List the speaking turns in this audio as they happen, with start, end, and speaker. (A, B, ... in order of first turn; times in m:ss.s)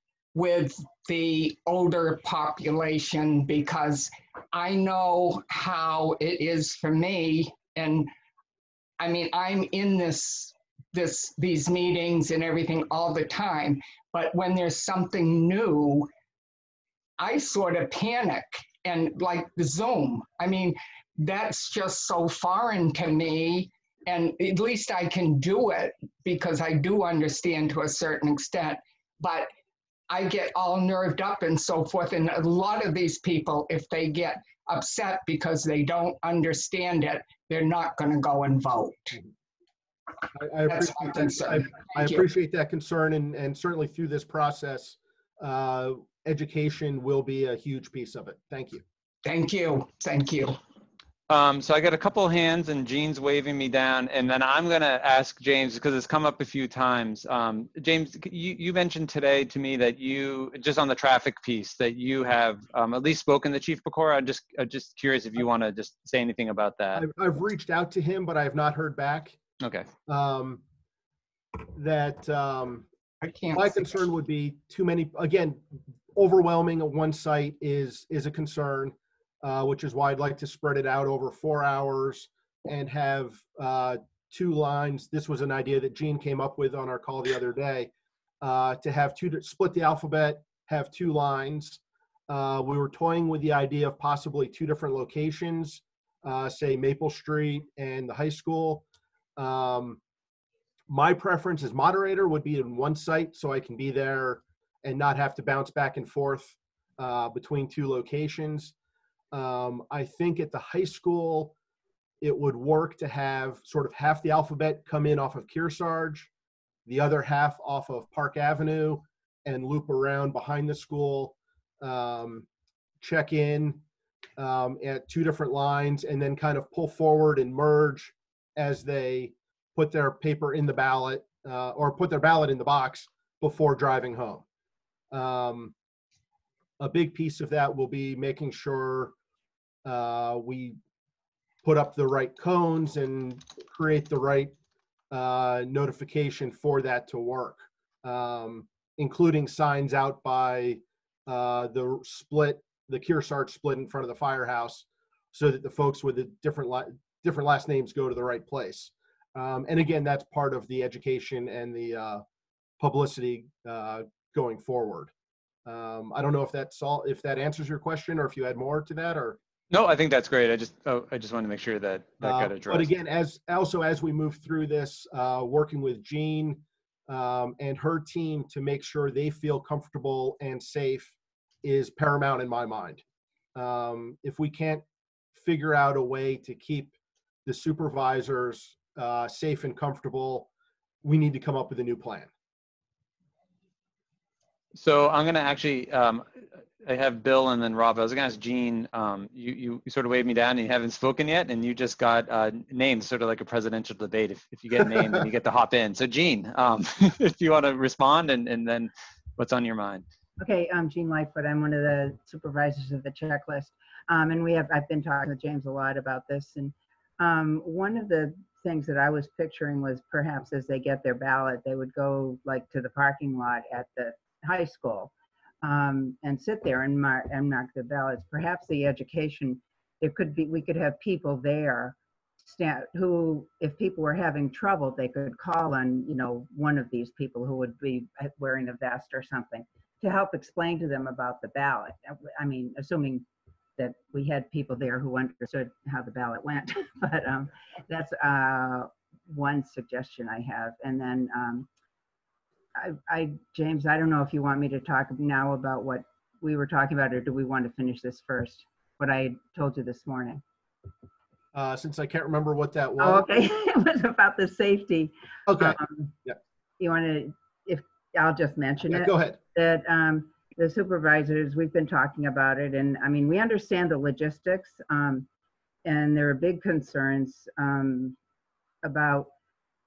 0:00.3-0:08.1 A
0:09.0-0:16.1 A
0:17.2-0:29.5 A
0:30.1-0:39.2 A
0:40.4-0:48.8 B
0:40.6-0:42.3 A
0:49.2-0:50.6 A
0:51.3-1:07.0 C
1:07.0-1:09.4 B
1:09.6-1:09.9 C
1:10.1-1:10.6 B
1:11.7-1:12.9 B
1:13.2-1:14.1 A
1:13.6-1:15.6 B
1:16.1-1:27.9 B
1:28.4-1:38.8 B
1:39.4-1:40.0 B
1:40.9-1:48.7 B
1:49.3-1:51.5 B
1:52.2-1:56.3 B
1:56.9-2:02.5 B
2:03.0-2:03.8 B
2:04.4-2:14.4 B
2:15.1-2:15.7 B
2:16.8-2:19.1 B
2:19.8-2:20.8 B
2:21.6-2:24.5 B
2:25.1-2:42.2 B
2:42.8-2:45.1 B
2:45.7-2:49.4 B
2:49.7-2:52.9 C
2:52.2-3:03.0 B
3:03.6-3:04.8 B
3:05.4-3:06.9 B
3:07.5-3:10.5 B
3:11.0-3:12.3 B
3:14.7-3:16.3 C
3:16.8-3:30.0 C
3:30.4-3:45.1 D
3:45.6-4:03.2 D
4:03.8-4:11.7 D
4:12.8-4:20.4 D
4:21.5-4:23.3 B
4:23.0-4:26.2 D
4:25.5-4:26.4 B
4:26.8-4:35.3 D
4:28.9-4:29.4 B
4:35.8-4:38.2 D
4:38.8-4:39.3 D